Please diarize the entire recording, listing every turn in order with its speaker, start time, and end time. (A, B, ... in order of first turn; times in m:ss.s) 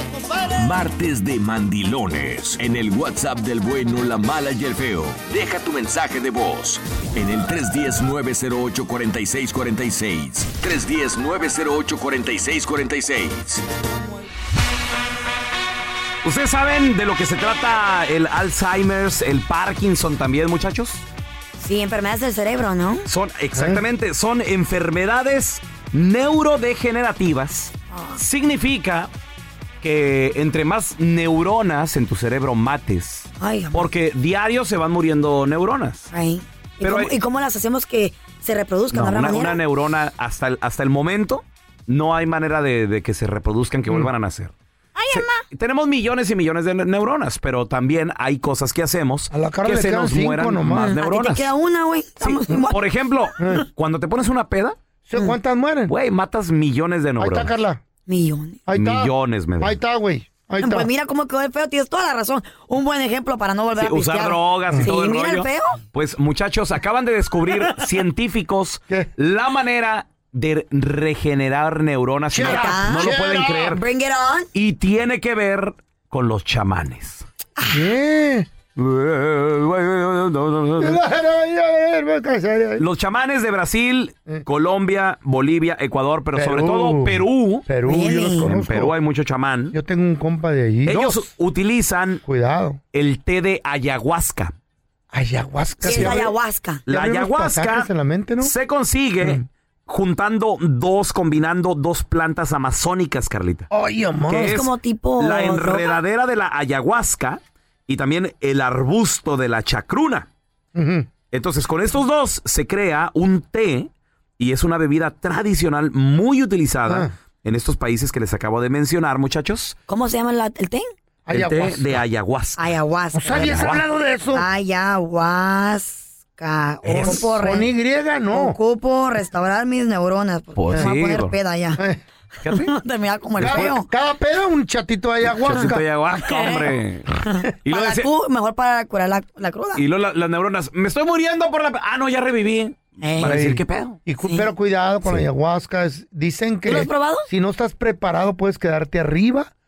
0:00.5-0:13.6 A
0:16.2-0:21.0 B
0:21.6-0:23.0 C
0:23.1-0:29.1 B
0:23.5-0:23.8 D
0:27.9-0:28.2 C
0:29.8-0:36.1 B
0:33.4-0:33.9 C
0:36.1-0:39.6 C
0:36.8-0:37.1 B
0:38.9-0:44.5 B
0:45.0-0:45.4 C
0:45.1-0:51.5 B
0:49.3-0:51.0 D
0:50.7-0:52.8 C
0:52.2-0:54.8 B
0:53.4-0:53.6 D
0:55.1-0:55.9 D
0:55.9-0:57.5 B
0:57.2-0:57.8 D
0:58.1-0:58.6 C
0:58.7-1:00.9 D
0:58.7-0:59.8 B
1:00.6-1:05.8 C
1:03.8-1:13.8 B
1:12.3-1:13.8 D
1:12.4-1:14.5 C
1:14.5-1:17.2 B
1:17.7-1:18.5 D
1:18.8-1:21.0 B
1:20.8-1:22.8 D
1:22.8-1:27.6 B
1:26.3-1:28.9 D
1:27.9-1:28.5 C
1:28.4-1:29.7 B
1:29.7-1:31.3 D
1:30.9-1:32.2 B
1:32.2-1:32.8 D
1:32.9-1:34.5 B
1:35.1-1:36.3 D
1:35.8-1:36.8 C
1:35.9-1:36.2 B
1:36.9-1:37.9 B
1:36.9-1:38.5 D
1:38.4-1:43.7 B
1:39.2-1:39.4 D
1:43.7-1:44.6 D
1:44.3-1:50.3 B
1:44.4-1:46.0 C
1:50.7-1:51.1 D
1:51.3-1:59.8 B
1:56.9-1:57.1 D
1:59.9-2:00.9 C
2:01.3-2:02.0 D
2:01.3-2:02.6 B
2:02.6-2:03.7 C
2:03.1-2:04.5 D
2:03.3-2:03.8 B
2:04.3-2:07.7 C
2:06.8-2:07.3 B
2:07.0-2:08.6 D
2:08.3-2:11.8 C
2:10.6-2:11.3 B
2:12.4-2:12.7 B
2:12.5-2:13.9 C
2:13.4-2:15.8 D
2:13.4-2:13.7 B
2:15.3-2:17.1 B
2:16.2-2:16.7 C
2:17.3-2:19.8 C
2:17.6-2:18.1 B
2:19.8-2:24.0 B
2:23.0-2:23.4 C
2:23.2-2:29.5 D
2:26.6-2:27.2 C